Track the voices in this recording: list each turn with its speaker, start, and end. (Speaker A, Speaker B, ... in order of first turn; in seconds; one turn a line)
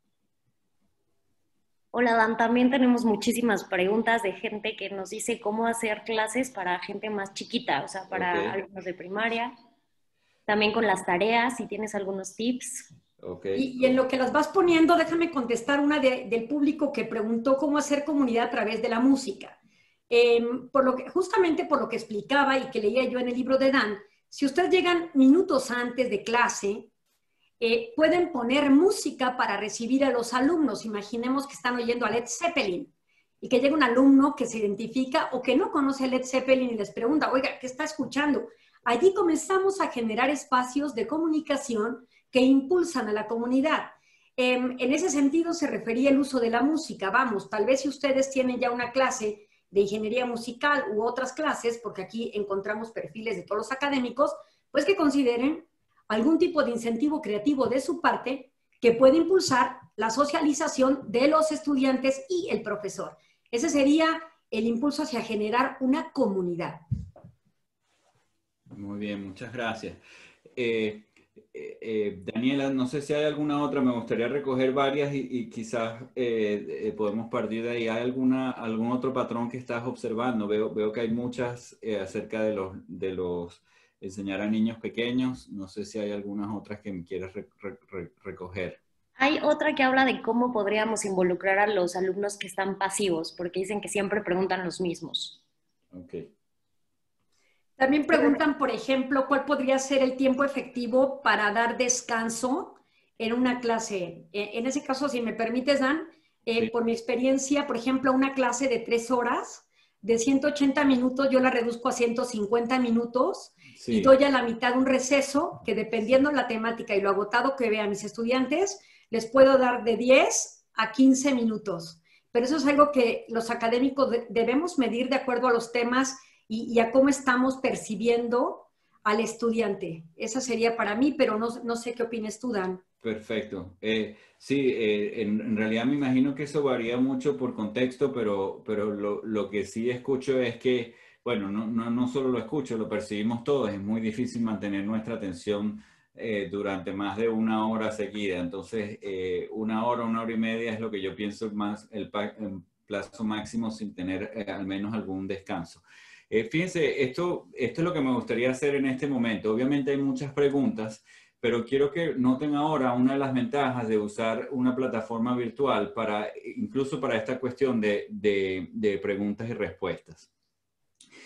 Speaker A: 1.9-9.5
Speaker B: 8.1-8.6
Speaker A: 10.5-12.9
Speaker B: 13.2-14.0
Speaker C: 13.6-19.6
Speaker C: 20.1-26.9
Speaker C: 27.6-32.9
Speaker C: 33.4-66.8
Speaker B: 68.7-70.0
Speaker B: 70.6-88.8
Speaker A: 89.2-95.4
Speaker B: 95.9-96.3
Speaker C: 97.8-132.8
Speaker A: 98.1-98.4
Speaker B: 113.8-114.1
Speaker B: 133.0-170.3